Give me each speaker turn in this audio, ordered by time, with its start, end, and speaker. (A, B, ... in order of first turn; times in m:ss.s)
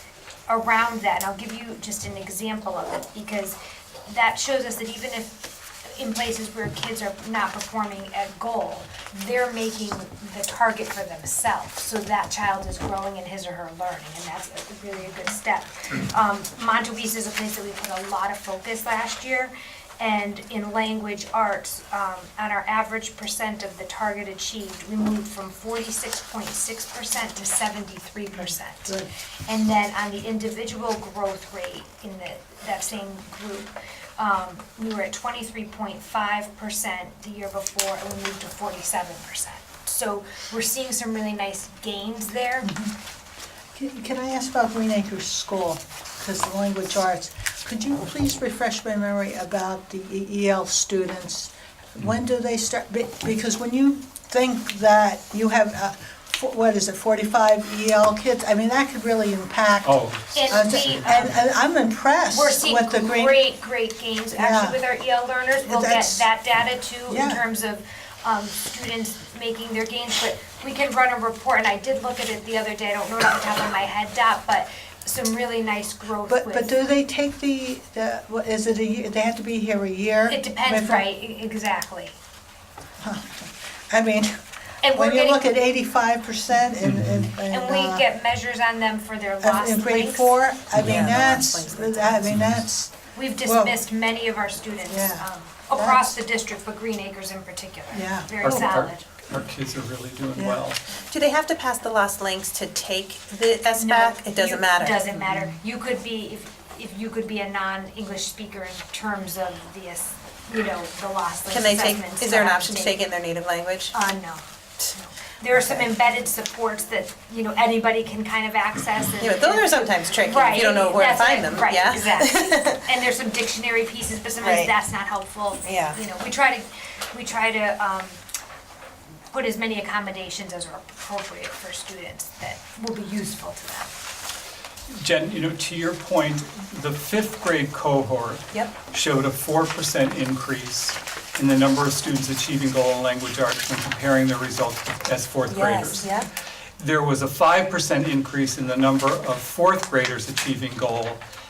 0:00.5-0:42.7 A
0:28.3-0:29.1 B
0:42.6-0:42.9 B
0:43.7-1:03.4 B
0:59.8-1:01.3 C
1:00.3-1:01.4 A
1:02.3-1:16.7 A
1:04.3-1:04.8 B
1:05.6-1:06.2 B
1:07.1-1:07.4 B
1:16.3-1:21.0 B
1:20.3-1:22.2 A
1:23.0-1:24.3 B
1:24.8-1:25.4 A
1:24.9-1:28.0 B
1:26.8-1:27.3 C
1:27.4-1:30.3 A
1:29.4-1:33.8 B
1:30.7-1:31.1 C
1:30.8-1:32.3 D
1:32.2-1:32.6 C
1:33.1-1:39.0 A
1:34.9-1:36.1 B
1:37.9-1:38.7 B
1:38.4-1:40.8 C
1:40.4-1:40.7 B
1:41.0-1:45.1 D
1:43.8-1:53.0 A
1:51.5-1:53.9 D
1:53.9-2:08.2 A
1:59.2-2:02.8 D
2:04.4-2:04.7 D
2:05.6-2:06.0 D
2:09.3-2:13.9 A
2:14.9-2:26.2 C
2:25.5-2:26.3 D
2:26.8-2:31.2 C